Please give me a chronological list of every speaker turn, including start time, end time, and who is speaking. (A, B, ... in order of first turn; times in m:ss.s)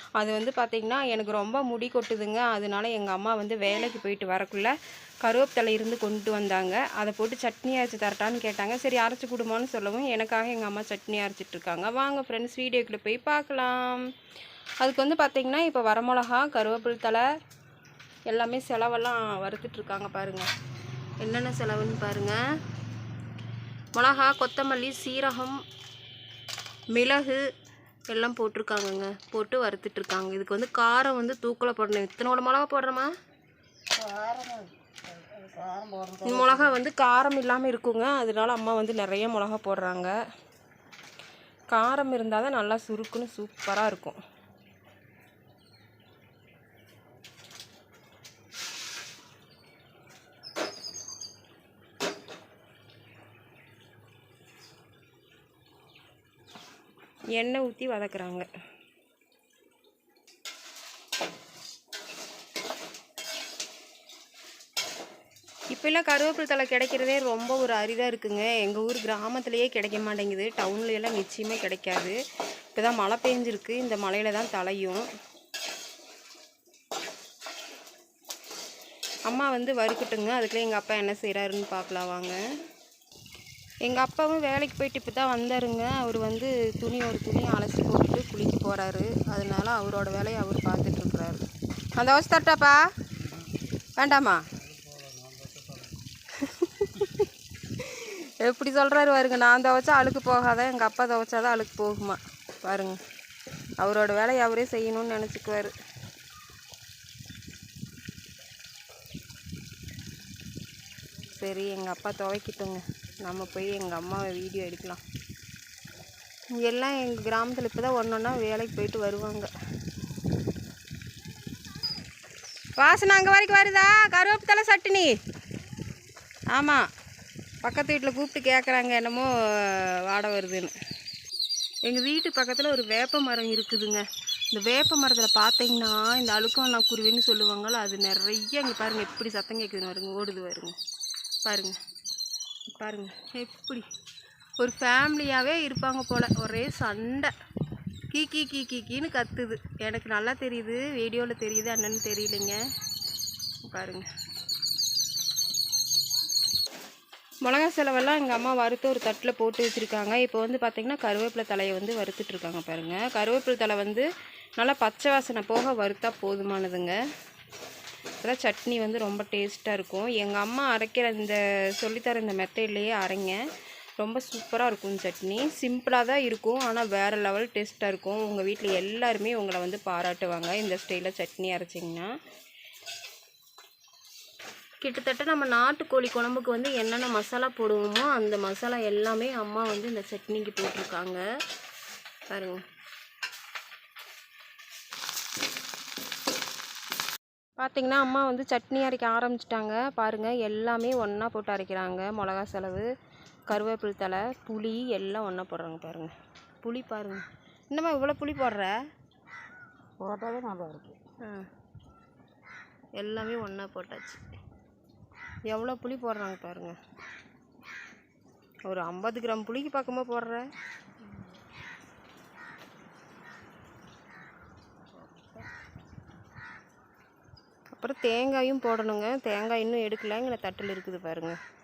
0:00.2-0:14.1 A
0:14.8-0:17.3 A
0:18.3-0:20.5 A
0:21.2-0:22.4 A
0:24.0-0:25.6 A
0:26.9-0:27.5 A
0:28.1-0:33.2 A
0:33.9-0:36.8 B
0:36.2-0:40.2 A
0:41.7-0:44.2 A
0:57.3-0:58.5 A
1:05.7-1:12.2 A
1:12.7-1:15.1 A
1:19.3-1:22.4 A
1:23.8-1:31.4 A
1:32.0-1:32.9 A
1:34.0-1:34.4 A
1:34.6-1:36.0 B
1:36.3-1:43.0 A
1:43.8-1:45.8 A
1:51.3-1:55.0 A
1:56.5-1:59.5 A
2:02.8-2:05.2 A
2:06.5-2:06.9 A
2:07.6-2:10.8 A
2:11.8-2:20.8 A
2:21.4-2:21.8 A
2:22.7-2:23.9 A
2:24.6-2:27.3 A
2:28.1-2:32.6 A
2:33.6-2:34.1 A
2:37.4-2:47.0 A
2:48.2-2:53.4 A
2:54.0-3:02.1 A
3:04.8-3:11.2 A
3:12.3-3:12.7 A
3:17.6-3:22.9 A
3:23.5-3:28.8 A
3:30.0-3:31.0 B
3:31.2-3:31.5 A
3:33.0-3:34.3 A
3:35.5-3:36.8 A
3:38.7-3:40.5 A
3:45.0-3:45.4 B
3:47.8-3:51.4 A